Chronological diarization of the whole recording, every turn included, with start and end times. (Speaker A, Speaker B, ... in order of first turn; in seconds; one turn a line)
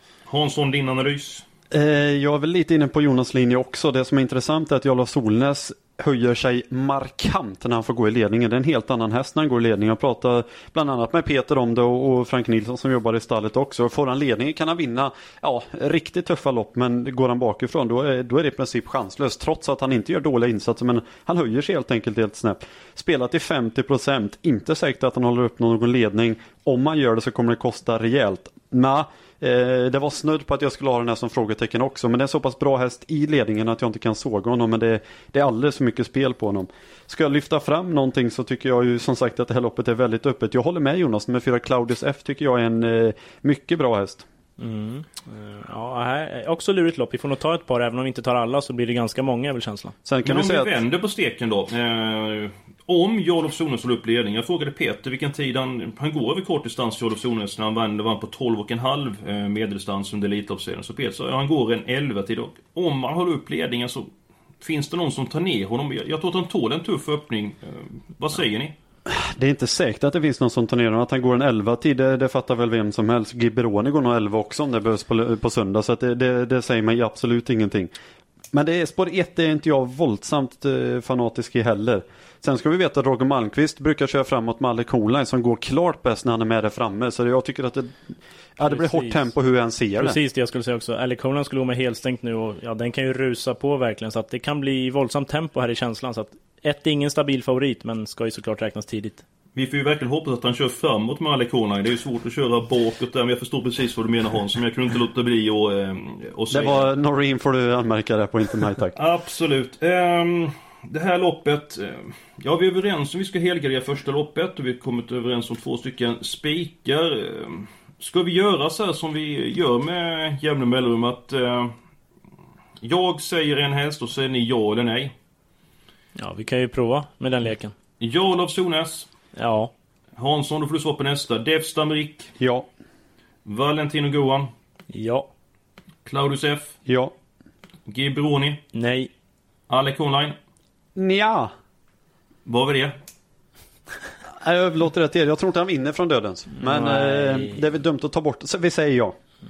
Speaker A: 0.3-1.4
Speaker B: 1.7-44.2
Speaker C: 44.6-49.9
Speaker B: 50.0-50.7
Speaker A: 50.2-64.1
Speaker A: 64.6-68.7
Speaker B: 69.1-77.9
Speaker B: 78.5-90.2
Speaker C: 88.6-89.3
Speaker C: 90.0-99.2
Speaker A: 99.5-106.9
Speaker B: 106.5-109.0
Speaker A: 109.0-121.7
Speaker A: 122.8-125.1
Speaker C: 126.2-127.7
Speaker A: 128.0-129.1
Speaker C: 129.3-129.7
Speaker A: 130.2-132.3
Speaker B: 132.4-132.7
Speaker A: 133.4-134.5
Speaker C: 134.9-135.3
Speaker A: 136.0-136.7
Speaker B: 136.8-137.1
Speaker A: 137.9-138.6
Speaker C: 138.7-139.1
Speaker A: 139.7-140.3
Speaker B: 140.9-141.5
Speaker A: 142.4-142.9
Speaker B: 144.3-149.1
Speaker C: 146.6-147.7